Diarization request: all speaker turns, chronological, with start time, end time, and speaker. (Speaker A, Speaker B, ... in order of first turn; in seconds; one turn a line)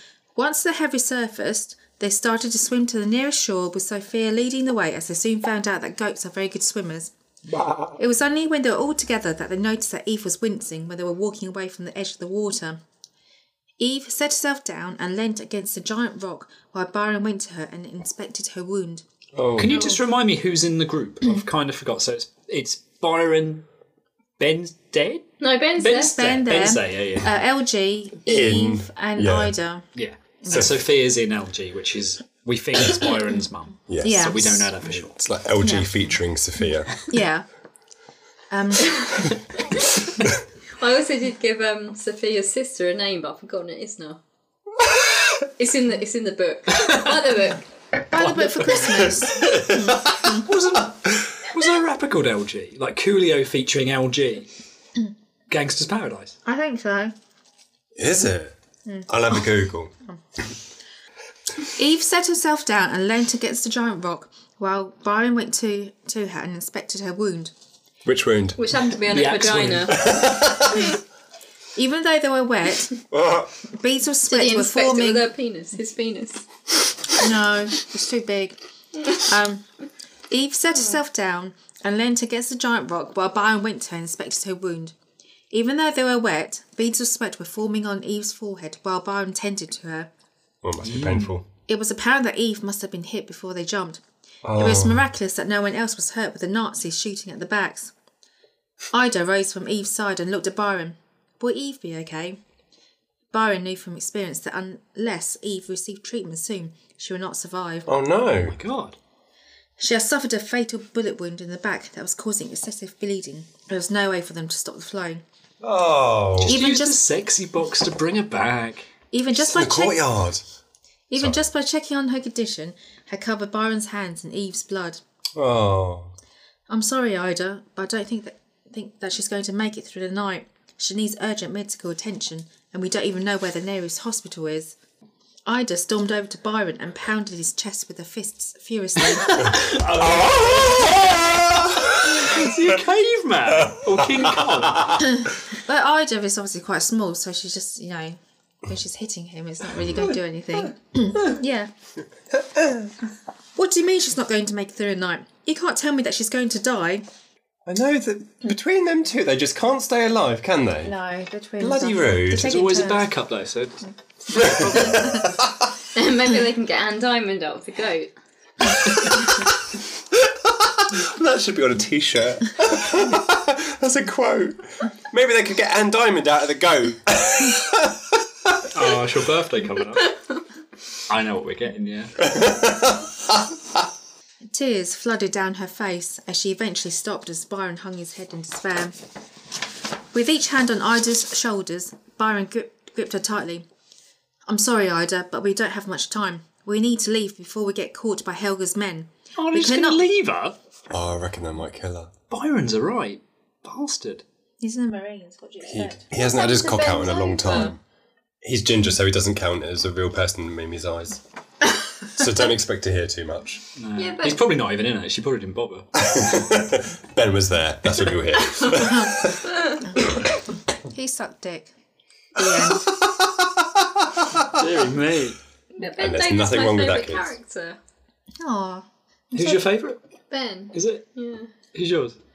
Speaker A: 0.3-7.1
Speaker B: 7.5-8.0
Speaker A: 8.0-12.8
Speaker A: 13.8-19.0
Speaker B: 19.3-19.7
Speaker C: 19.6-23.6
Speaker C: 24.4-27.3
Speaker D: 25.4-26.3
Speaker A: 26.0-29.9
Speaker B: 28.2-29.5
Speaker C: 29.9-35.1
Speaker B: 30.5-30.7
Speaker B: 33.9-37.0
Speaker A: 34.0-34.7
Speaker A: 35.6-35.9
Speaker A: 37.1-37.4
Speaker A: 38.5-39.2
Speaker D: 40.8-44.2
Speaker D: 45.6-47.6
Speaker C: 46.8-47.1
Speaker A: 48.1-50.3
Speaker C: 48.1-49.2
Speaker B: 49.2-50.3
Speaker C: 49.9-54.5
Speaker C: 55.5-56.4
Speaker A: 56.4-57.1
Speaker B: 58.0-58.5
Speaker B: 59.1-59.9
Speaker A: 61.7-67.5
Speaker B: 68.0-68.8
Speaker D: 68.6-70.1
Speaker C: 69.1-70.1
Speaker B: 69.9-70.9
Speaker A: 71.8-73.0
Speaker B: 73.1-73.5
Speaker A: 73.7-75.3
Speaker D: 74.3-76.5
Speaker A: 77.1-79.6
Speaker A: 80.3-84.9
Speaker A: 85.5-90.1
Speaker B: 90.6-91.5
Speaker C: 90.8-91.3
Speaker A: 91.7-94.0
Speaker B: 94.4-95.0
Speaker A: 94.5-97.9
Speaker A: 98.9-102.4
Speaker A: 103.3-107.9
Speaker B: 107.8-108.6
Speaker C: 108.4-109.0
Speaker A: 109.8-115.2
Speaker B: 115.6-116.6
Speaker A: 116.4-117.0
Speaker C: 116.4-118.9
Speaker A: 119.1-120.0
Speaker B: 119.3-120.4
Speaker A: 121.1-125.0
Speaker B: 125.3-126.1
Speaker A: 126.7-134.8
Speaker A: 135.4-139.5
Speaker C: 139.1-145.0
Speaker B: 139.9-142.8
Speaker B: 143.5-145.0
Speaker A: 145.0-151.7
Speaker B: 149.7-150.2
Speaker B: 152.3-152.9
Speaker A: 153.6-157.0
Speaker B: 157.7-160.9
Speaker A: 160.8-163.1
Speaker B: 161.6-162.7
Speaker C: 162.3-165.3
Speaker B: 164.3-165.7
Speaker A: 164.4-164.9
Speaker D: 165.9-168.1
Speaker D: 168.7-169.2
Speaker B: 170.1-178.7
Speaker C: 178.7-180.2
Speaker C: 181.1-182.2
Speaker B: 182.2-183.5
Speaker A: 184.5-188.9
Speaker A: 190.1-193.7
Speaker A: 194.5-200.0
Speaker C: 199.3-200.6
Speaker B: 200.9-202.1
Speaker C: 202.3-204.2
Speaker A: 204.6-206.0
Speaker B: 205.7-207.8
Speaker D: 206.1-207.7
Speaker B: 208.4-211.2
Speaker B: 212.1-213.6
Speaker C: 213.8-215.9
Speaker D: 214.0-214.4
Speaker B: 216.0-220.2
Speaker A: 219.9-220.2
Speaker A: 220.9-221.7
Speaker A: 222.3-223.0
Speaker B: 223.0-224.4
Speaker C: 224.4-225.4
Speaker D: 225.8-227.8
Speaker B: 226.0-227.3
Speaker A: 228.4-229.6
Speaker C: 229.3-230.0
Speaker D: 230.3-231.5
Speaker C: 230.7-231.0
Speaker C: 231.6-232.2